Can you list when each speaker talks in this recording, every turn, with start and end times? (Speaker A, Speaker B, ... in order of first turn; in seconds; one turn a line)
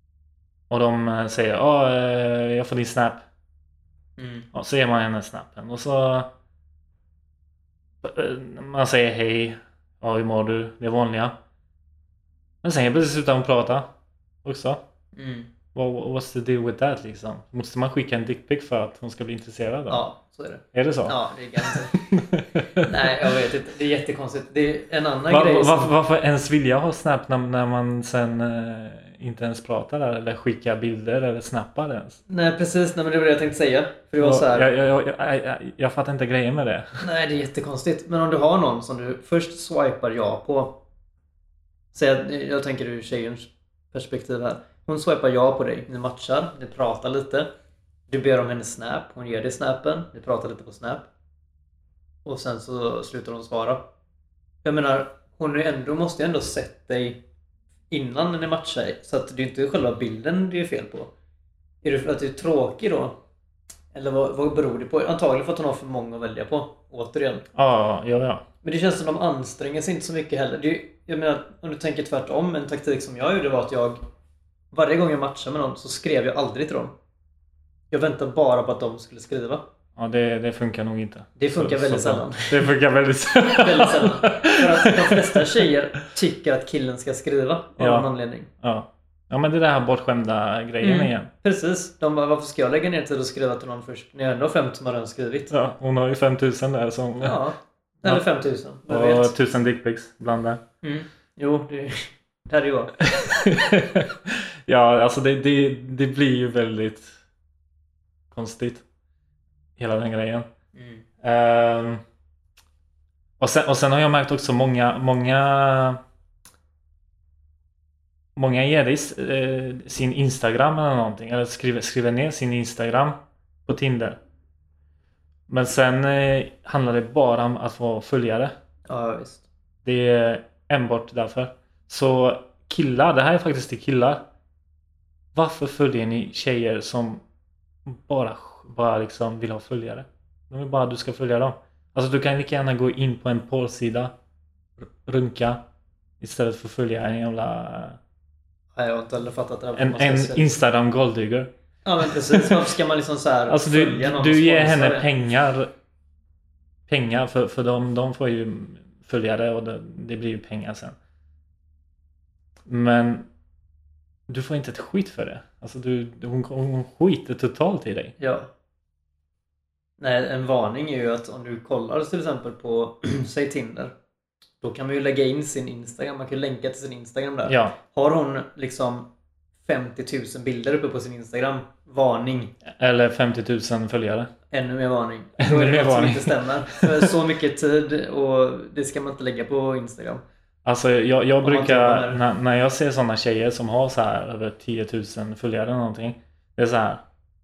Speaker A: 0.7-3.2
Speaker B: 4.2-4.5
Speaker A: 4.5-6.3
Speaker A: 8.0-11.3
Speaker A: 12.6-13.9
Speaker A: 14.4-14.8
Speaker B: 15.2-15.5
Speaker A: 15.7-20.0
Speaker B: 19.9-22.0
Speaker A: 20.7-23.3
Speaker B: 22.8-25.9
Speaker A: 25.3-32.2
Speaker B: 32.3-34.7
Speaker A: 34.2-37.0
Speaker B: 37.0-40.8
Speaker B: 41.9-47.5
Speaker B: 48.1-51.1
Speaker B: 52.2-53.9
Speaker B: 54.6-57.2
Speaker B: 57.9-61.1
Speaker B: 61.8-63.2
Speaker B: 63.9-67.5
Speaker A: 67.5-68.4
Speaker B: 68.6-74.0
Speaker B: 74.7-76.9
Speaker B: 77.9-79.7
Speaker A: 80.0-85.7
Speaker B: 81.4-82.7
Speaker B: 83.6-88.5
Speaker A: 87.8-88.1
Speaker A: 88.6-91.3
Speaker B: 90.8-95.5
Speaker A: 95.5-97.4
Speaker B: 97.2-99.3
Speaker A: 98.9-100.6
Speaker B: 100.8-103.0
Speaker A: 103.0-107.2
Speaker A: 108.3-108.8
Speaker A: 109.8-110.5
Speaker B: 110.8-111.0
Speaker A: 111.2-112.0
Speaker A: 113.4-116.0
Speaker A: 118.4-124.2
Speaker A: 125.5-128.5
Speaker B: 128.9-129.5
Speaker A: 129.8-134.2
Speaker A: 135.3-137.2
Speaker A: 137.9-144.1
Speaker A: 144.8-145.6
Speaker A: 146.2-148.0
Speaker B: 148.8-150.6
Speaker A: 149.8-152.6
Speaker B: 151.8-155.1
Speaker A: 153.5-155.7
Speaker A: 156.9-160.9
Speaker A: 162.7-163.3
Speaker A: 164.3-168.2
Speaker B: 168.2-168.5
Speaker B: 170.0-173.9
Speaker B: 174.6-179.1
Speaker A: 177.5-177.8
Speaker B: 179.7-182.5
Speaker A: 182.7-184.3
Speaker B: 184.5-190.2
Speaker A: 185.4-187.1
Speaker A: 190.7-197.0
Speaker B: 191.4-192.2